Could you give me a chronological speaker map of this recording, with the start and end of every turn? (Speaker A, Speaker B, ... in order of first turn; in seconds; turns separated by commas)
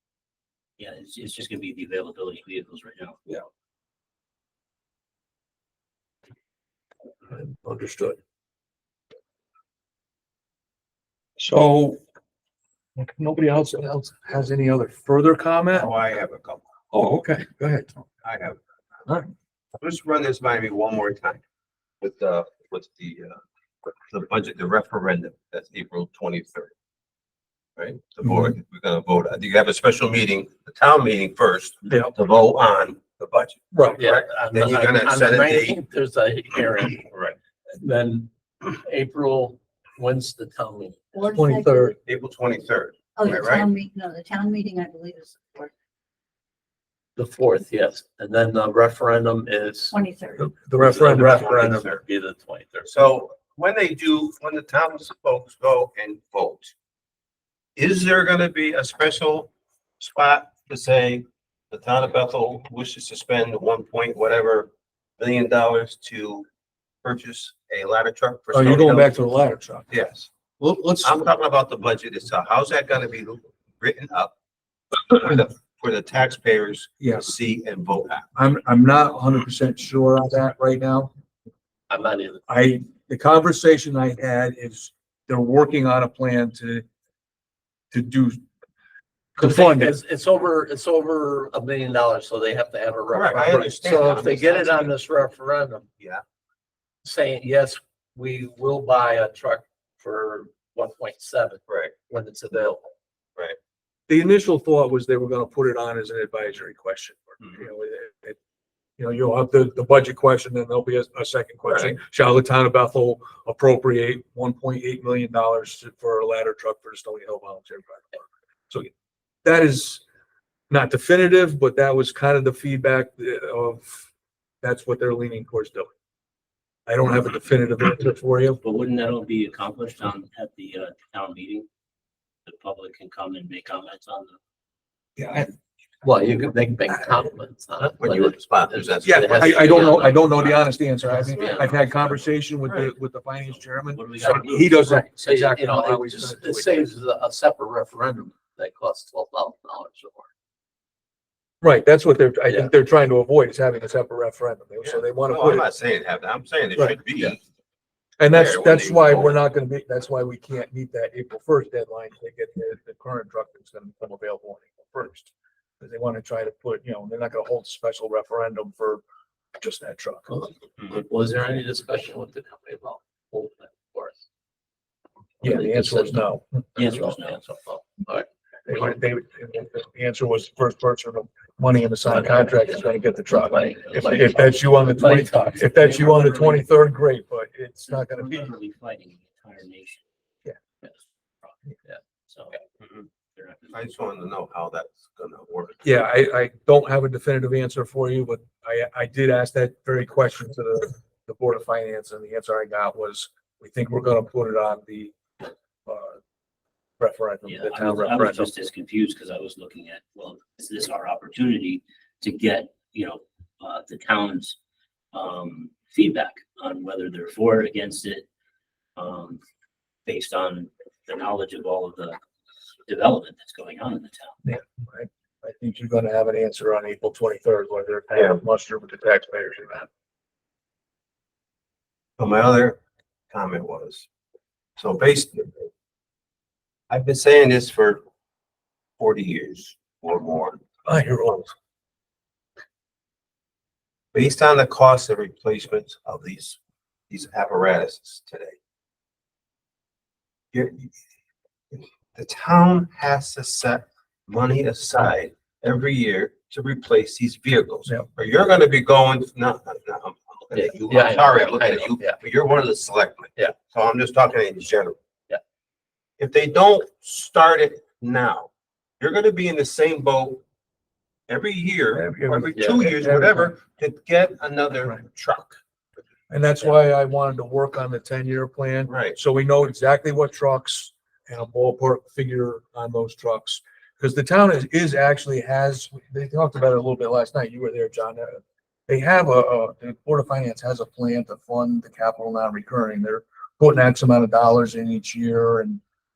Speaker A: 0.8-3.2, Speaker B: 7.3-8.2, Speaker B: 11.4-12.0, Speaker B: 12.9-15.9, Speaker C: 15.7-16.6, Speaker B: 16.9-18.0, Speaker C: 18.2-18.6, Speaker C: 19.8-21.4, Speaker C: 22.0-26.7, Speaker C: 27.8-35.8, Speaker B: 28.2-28.5, Speaker B: 31.9-32.1, Speaker B: 33.7-34.0, Speaker D: 34.0-37.1, Speaker C: 37.1-37.4, Speaker D: 37.8-41.1, Speaker E: 41.1-42.0, Speaker B: 41.3-42.0, Speaker C: 42.1-43.7, Speaker E: 43.2-45.7, Speaker D: 47.2-50.0, Speaker E: 49.9-50.5, Speaker B: 50.4-51.9, Speaker D: 50.7-52.9, Speaker C: 51.1-52.0, Speaker C: 52.8-56.7, Speaker C: 57.8-66.5, Speaker C: 67.0-69.1, Speaker B: 68.5-69.9, Speaker C: 69.9-70.3, Speaker B: 70.6-71.2, Speaker C: 71.0-74.3, Speaker C: 75.1-78.3, Speaker B: 77.0-77.3, Speaker B: 78.3-81.1, Speaker D: 81.9-82.4, Speaker B: 82.5-86.8, Speaker B: 87.9-88.4, Speaker B: 89.4-90.0, Speaker D: 89.4-95.9, Speaker C: 93.1-95.0, Speaker D: 97.0-102.9, Speaker C: 101.7-101.9, Speaker B: 104.1-108.4, Speaker B: 109.0-118.9, Speaker C: 111.7-111.9, Speaker B: 119.4-120.0, Speaker B: 120.7-124.1, Speaker B: 124.6-125.9, Speaker B: 126.9-128.6, Speaker A: 128.6-131.7, Speaker A: 132.4-134.4, Speaker B: 135.2-135.5, Speaker D: 136.0-140.5, Speaker C: 138.0-140.1, Speaker B: 139.0-146.9, Speaker C: 141.3-142.1, Speaker D: 141.3-142.0, Speaker C: 142.7-142.9, Speaker A: 143.8-144.9, Speaker D: 144.2-150.3, Speaker B: 151.6-155.7, Speaker C: 154.8-157.4, Speaker B: 156.8-157.3, Speaker B: 158.2-169.0, Speaker C: 158.3-159.4, Speaker B: 169.6-170.4, Speaker D: 170.3-174.2, Speaker D: 175.4-176.2, Speaker B: 175.4-176.6, Speaker A: 176.8-177.4, Speaker D: 176.8-178.3, Speaker B: 178.7-188.4, Speaker D: 182.1-182.7, Speaker D: 183.3-186.7, Speaker A: 187.9-190.0, Speaker A: 192.3-192.6, Speaker C: 192.8-193.1, Speaker A: 193.3-193.8, Speaker C: 193.7-195.8, Speaker B: 195.8-205.2, Speaker B: 205.8-206.2, Speaker B: 207.0-208.5, Speaker A: 207.4-214.6, Speaker A: 215.1-218.2, Speaker A: 218.9-219.4, Speaker A: 220.1-222.2, Speaker A: 222.9-224.3, Speaker B: 224.4-229.9, Speaker C: 228.1-228.4, Speaker C: 232.2-232.8, Speaker C: 233.3-234.1, Speaker C: 234.8-235.7, Speaker C: 236.9-238.0, Speaker C: 239.0-240.6, Speaker B: 240.8-241.5, Speaker C: 244.1-248.6, Speaker C: 250.5-250.9, Speaker C: 251.7-265.0, Speaker D: 260.5-262.2, Speaker C: 266.2-270.4, Speaker C: 271.3-275.6, Speaker B: 271.9-273.5, Speaker D: 272.6-272.9, Speaker B: 276.3-295.8, Speaker C: 278.9-279.2